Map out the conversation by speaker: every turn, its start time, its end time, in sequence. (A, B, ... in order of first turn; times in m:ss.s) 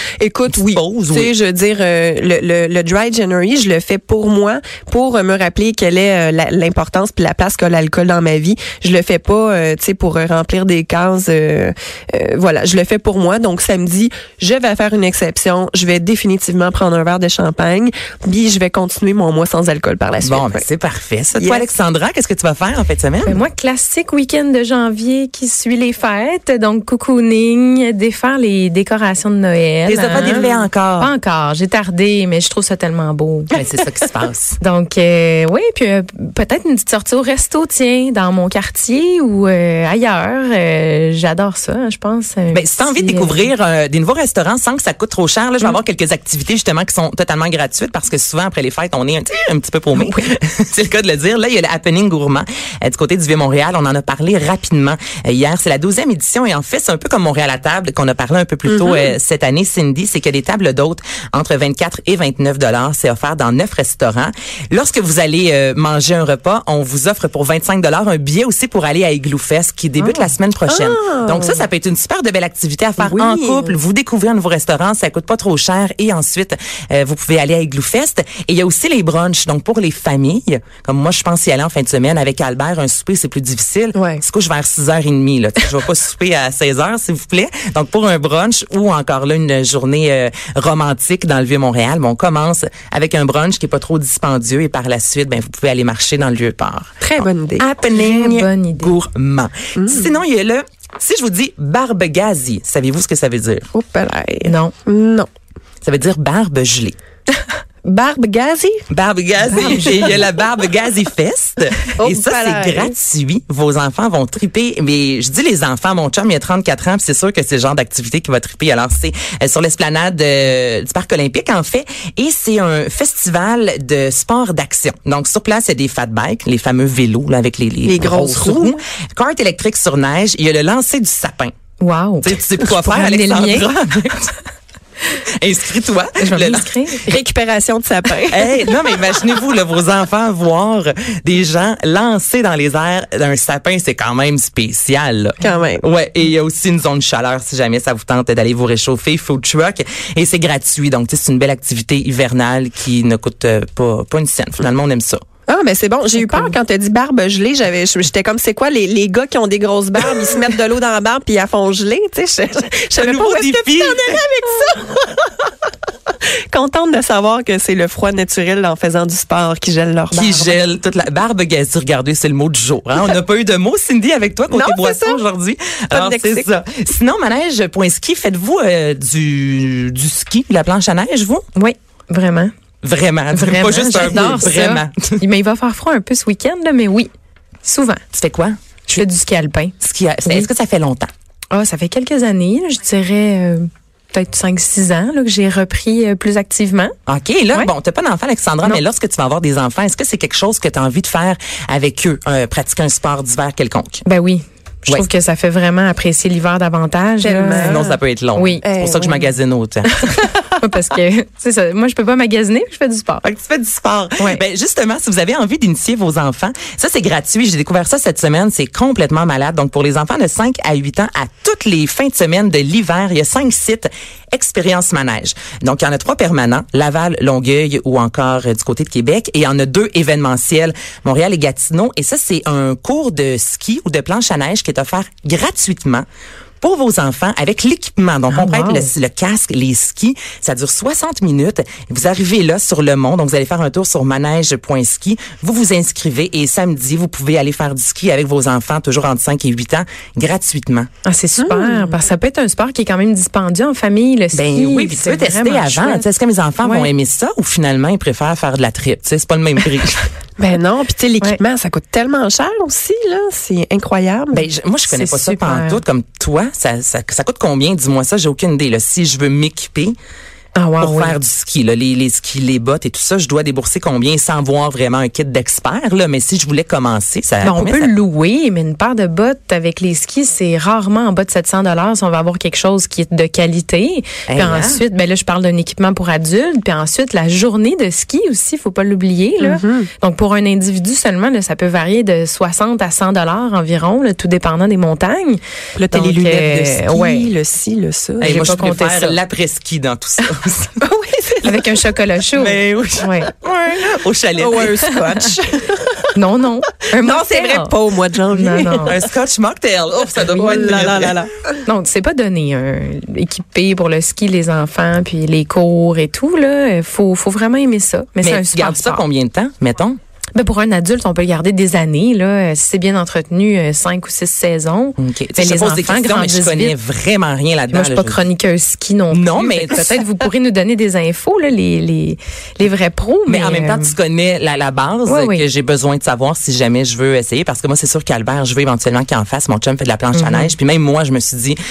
0:00.2-0:20.6 A
0:00.5-0:01.3 B
0:20.2-0:23.4 B
0:21.4-0:21.6 A
0:23.2-0:30.4 C
0:29.9-0:31.1 B
0:30.1-0:30.6 A
0:31.0-0:33.6 C
0:33.5-0:34.6 B
0:34.6-0:43.5 C
0:42.5-1:43.7 B
0:49.9-0:50.2 C
0:58.7-0:59.1 A
1:10.2-1:11.7 A
1:13.0-1:13.8 A
1:23.9-1:24.2 A
1:37.0-1:37.7 A
1:37.9-1:38.9 C
1:39.8-1:40.1 A
1:43.7-1:45.3 A
1:44.4-1:44.7 C
1:45.8-1:47.0 B
1:47.8-1:48.8 A
1:48.9-2:11.5 B
1:49.5-1:50.0 C
1:49.5-1:50.2 A
1:52.0-1:52.9 A
2:07.8-2:08.8 A
2:11.8-2:13.7 C
2:12.2-2:14.3 B
2:15.4-2:16.7 B
2:16.2-2:17.0 C
2:17.1-2:18.8 A
2:18.3-2:35.2 B
2:25.4-2:25.8 A
2:35.5-2:45.5 A
2:43.0-2:44.2 B
2:46.5-2:50.6 A
2:50.1-3:01.4 B
2:54.5-2:55.2 A
2:55.9-2:56.5 A
3:01.6-3:02.5 C
3:02.8-3:05.2 B
3:03.3-3:07.1 C
3:07.6-3:08.0 C
3:08.1-3:09.0 B
3:08.9-3:10.5 C
3:09.8-3:11.1 B
3:11.5-3:16.9 C
3:17.1-3:24.0 B
3:24.0-3:27.8 C
3:27.2-3:28.0 A
3:27.5-3:29.9 B
3:28.3-3:28.6 C
3:28.6-3:29.3 A
3:29.9-3:33.2 C
3:33.2-3:56.0 B
3:56.6-4:10.9 B
3:58.3-3:58.9 C
4:11.0-4:16.0 C
4:11.4-4:12.0 A
4:14.3-4:20.0 B
4:16.6-4:16.9 C
4:20.4-4:24.5 A
4:24.3-4:29.9 B
4:24.9-4:25.8 C
4:30.5-4:31.2 C
4:30.8-4:37.9 B
4:37.4-4:57.3 C
4:44.3-4:44.8 B
4:49.4-4:49.9 A
4:55.8-4:58.5 A
4:58.2-5:00.7 B
4:58.2-4:59.2 C
5:00.8-5:01.9 A
5:01.4-5:03.3 C
5:02.3-5:04.9 B
5:04.4-5:06.1 A
5:06.1-5:07.7 C
5:07.0-5:09.0 A
5:08.3-5:09.0 C
5:08.8-5:11.2 B
5:10.2-5:11.5 A
5:11.6-5:19.0 C
5:18.2-5:20.0 B
5:20.3-5:26.7 C
5:25.0-5:28.2 B
5:27.7-5:33.9 C
5:29.1-5:30.0 B
5:33.3-5:41.6 B
5:35.0-5:35.4 C
5:40.1-5:40.5 C